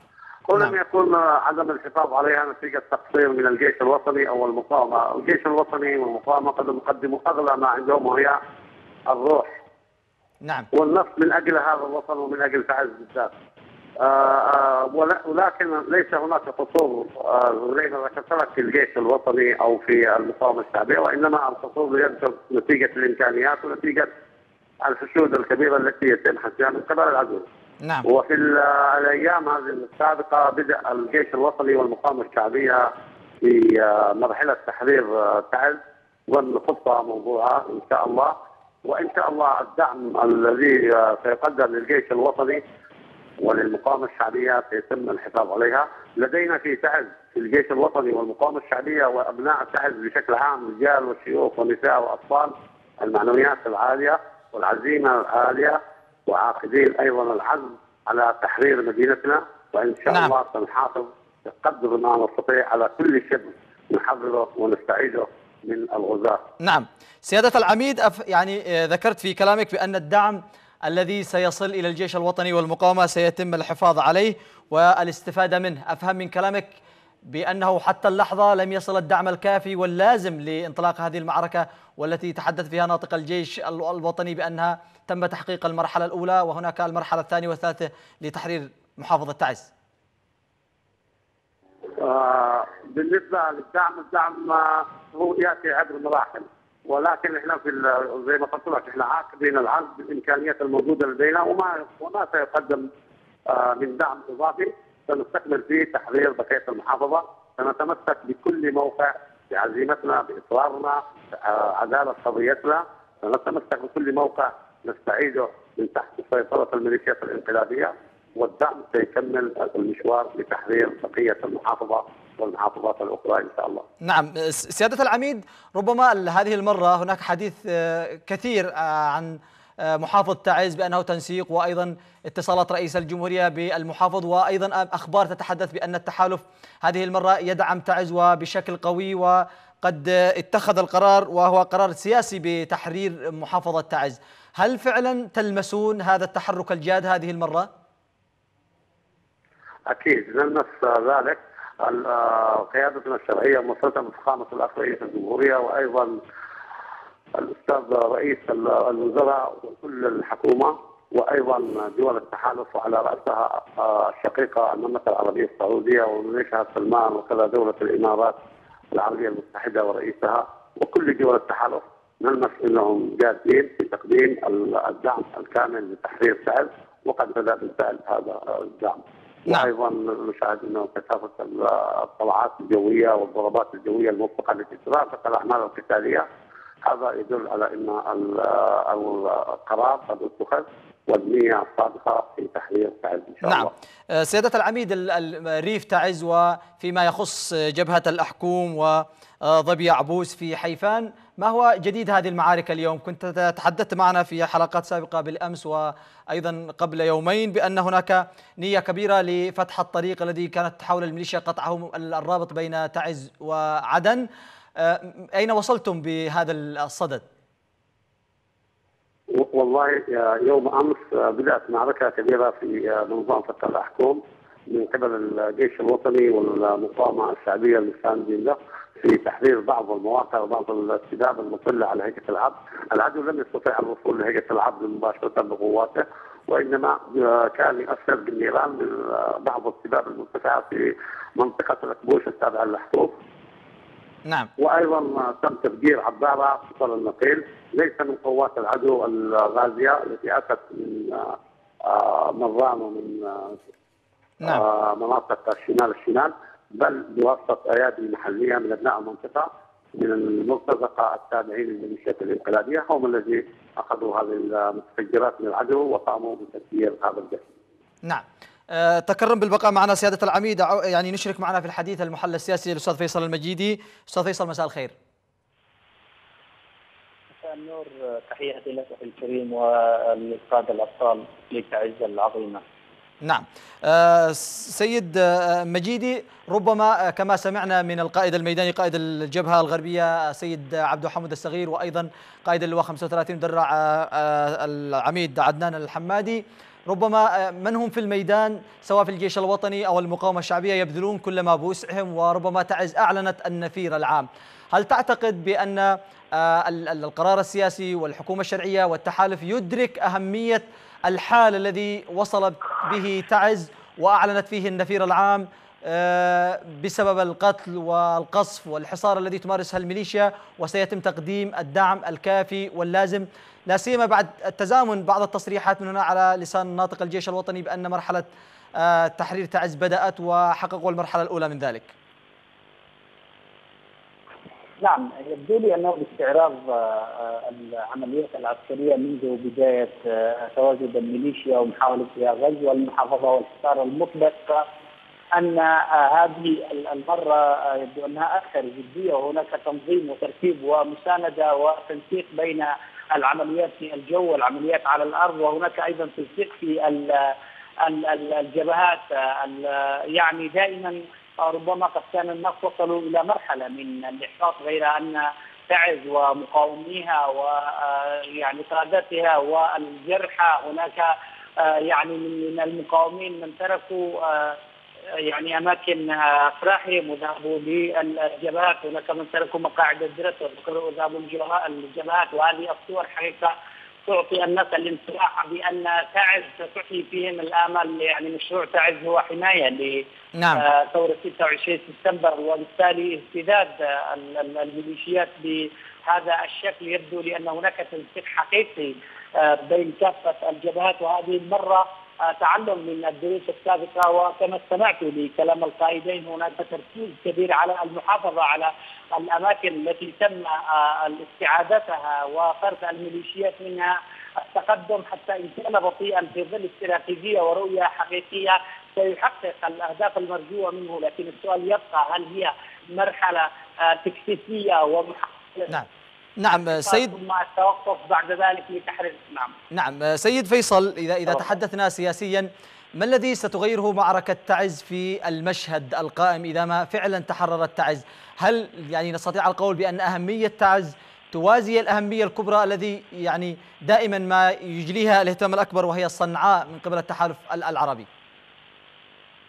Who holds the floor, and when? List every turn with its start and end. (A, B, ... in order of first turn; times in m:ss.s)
0:00.4-0:08.4 A
0:09.1-0:09.5 A
0:10.4-0:10.7 B
0:10.7-0:13.3 A
0:14.0-0:24.1 A
0:24.8-0:27.4 A
0:27.8-0:28.1 B
0:28.0-0:32.9 A
0:33.4-0:38.3 A
0:38.8-0:42.6 A
0:43.4-1:06.4 A
1:00.1-1:00.3 B
1:06.6-1:16.7 B
1:17.3-1:29.7 B
1:32.0-1:42.9 A
1:43.5-2:03.9 A
2:04.0-2:27.7 B
2:29.9-2:36.2 A
2:37.3-2:48.4 A
2:48.9-3:06.3 A
3:06.8-3:13.7 A
3:13.4-3:34.2 B
3:34.8-3:37.2 B
3:39.3-4:03.1 A
4:04.6-4:13.6 A
4:14.4-4:27.4 A
4:28.0-4:34.9 B
4:37.4-4:42.6 C
4:43.2-5:28.3 B
5:28.8-5:31.9 B
5:34.8-5:44.6 C
5:45.3-6:14.6 C
6:15.2-6:23.5 C
6:24.1-6:30.0 C
6:30.4-6:30.6 B
6:30.6-7:05.7 C
7:06.4-7:07.2 B
7:06.6-7:09.6 C
7:09.7-7:28.1 B